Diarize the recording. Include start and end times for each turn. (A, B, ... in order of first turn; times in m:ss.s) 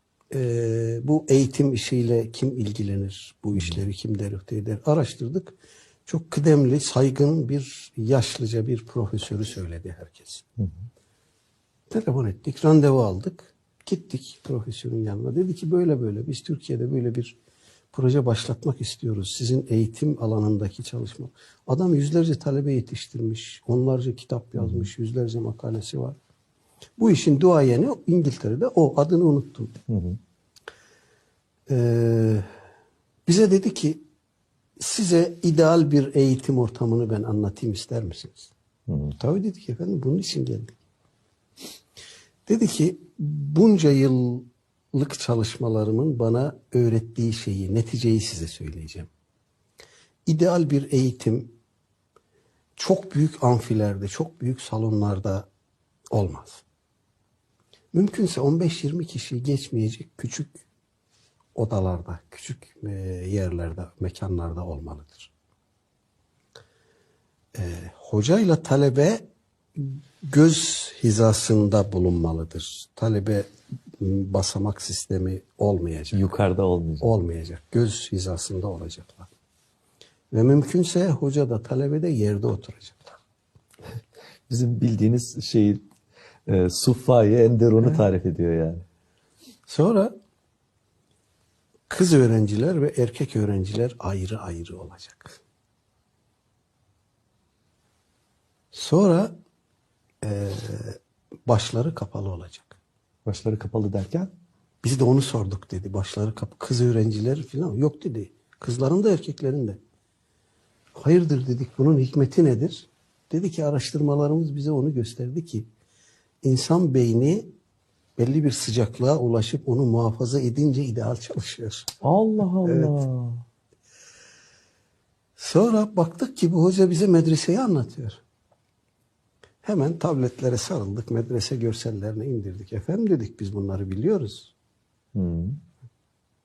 0:00.3-0:05.6 A
0:06.1-0:10.5 A
0:11.9-0:17.4 A
0:17.9-0:26.2 A
0:24.6-0:24.9 B
0:27.0-0:29.8 A
0:29.9-0:30.2 B
0:31.7-0:32.5 A
0:33.2-0:34.0 A
0:34.8-0:38.5 A
0:38.9-0:39.2 B
0:39.2-0:40.7 A
0:42.4-0:49.1 A
0:50.3-0:51.5 A
0:52.8-0:55.5 A
0:56.1-0:56.6 A
0:57.9-1:00.6 A
1:01.5-1:05.3 A
1:07.5-1:16.2 A
1:16.1-1:17.0 B
1:17.0-1:19.3 A
1:20.3-1:23.1 A
1:24.5-1:25.8 B
1:26.5-1:28.8 B
1:29.7-1:30.1 A
1:31.9-1:35.4 A
1:38.7-1:39.3 A
1:40.2-1:42.8 A
1:43.2-1:44.3 B
1:44.8-1:49.8 A
1:50.9-1:55.7 A
1:56.4-1:57.5 A
1:58.2-2:01.9 A
2:02.0-2:03.4 B
2:02.6-2:02.9 A
2:05.4-2:08.2 A
2:09.6-2:14.5 A
2:15.1-2:15.6 B